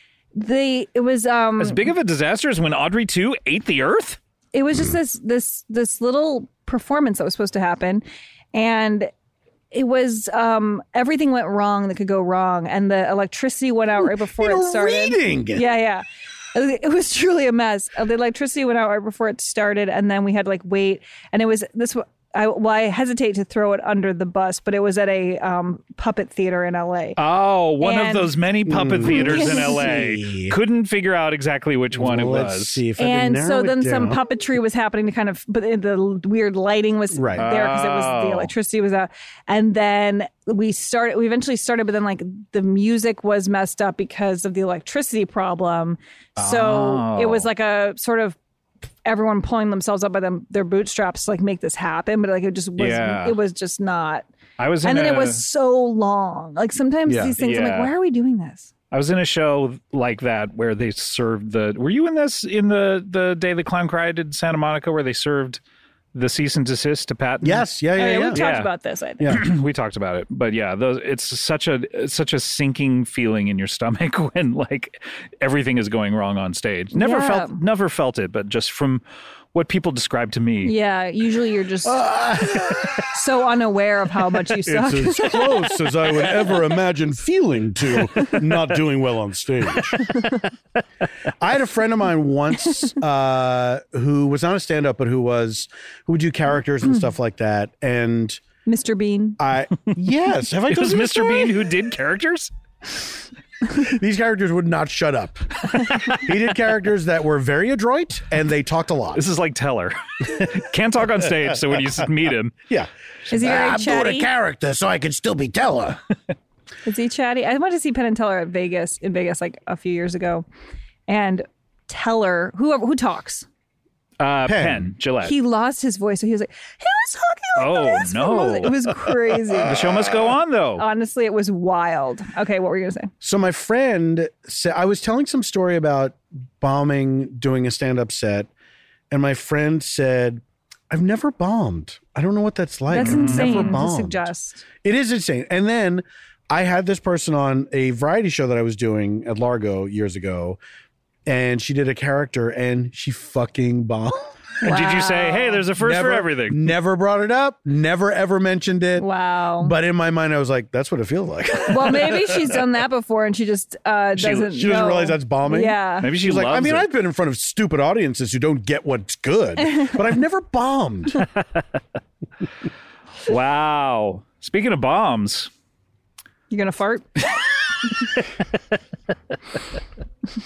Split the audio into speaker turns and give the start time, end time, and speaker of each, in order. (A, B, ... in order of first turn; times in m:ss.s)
0:00.3-0:01.9 A
0:01.6-0:04.2 B
0:04.5-0:09.1 A
0:09.7-0:27.2 A
0:14.0-0:15.6 C
0:27.2-0:32.8 B
0:27.8-0:28.3 A
0:28.6-0:30.6 C
0:29.1-0:29.8 A
0:31.9-0:34.2 C
0:33.0-0:48.4 A
0:37.1-0:37.5 C
0:37.4-0:38.5 B
0:46.4-0:47.5 B
0:49.0-0:54.3 A
0:52.8-0:53.4 B
0:54.6-0:55.4 B
0:54.8-0:58.7 A
0:57.1-0:57.3 C
0:57.4-0:57.9 B
0:58.9-1:05.6 B
1:06.1-1:07.6 B
1:07.4-1:08.4 C
1:08.0-1:09.3 A
1:08.3-1:08.7 B
1:09.3-1:19.0 B
1:16.9-1:17.6 A
1:19.5-1:20.7 B
1:20.6-1:25.8 A
1:21.8-1:23.1 C
1:24.6-1:30.1 C
1:31.4-1:38.4 C
1:38.6-1:39.4 A
1:39.4-1:41.6 C
1:40.7-1:42.5 B
1:43.7-1:49.2 C
1:49.1-1:52.6 B
1:52.7-1:56.0 C
1:53.3-1:54.3 A
1:56.8-2:00.4 A
2:01.1-2:03.4 A
2:04.2-2:05.3 B
2:04.4-2:04.9 C
2:05.2-2:09.7 A
2:07.6-2:08.9 B
2:09.6-2:10.8 B
2:09.7-2:10.0 C
2:10.8-2:13.1 A
2:13.2-2:18.5 C
2:19.1-2:24.3 C
2:22.9-2:24.6 A
2:23.0-2:23.8 B
2:24.8-2:30.6 C
2:31.2-2:34.3 C
2:34.6-2:35.6 A
2:34.6-2:36.7 B
2:35.8-2:39.1 C
2:39.0-2:39.7 A
2:39.6-2:42.6 C
2:41.7-2:46.1 A
2:44.2-2:44.5 B
2:44.4-2:51.2 C
2:46.0-2:46.9 B
2:49.6-2:50.0 A
2:53.2-2:55.5 B
2:56.5-2:57.0 A
2:58.0-2:58.2 B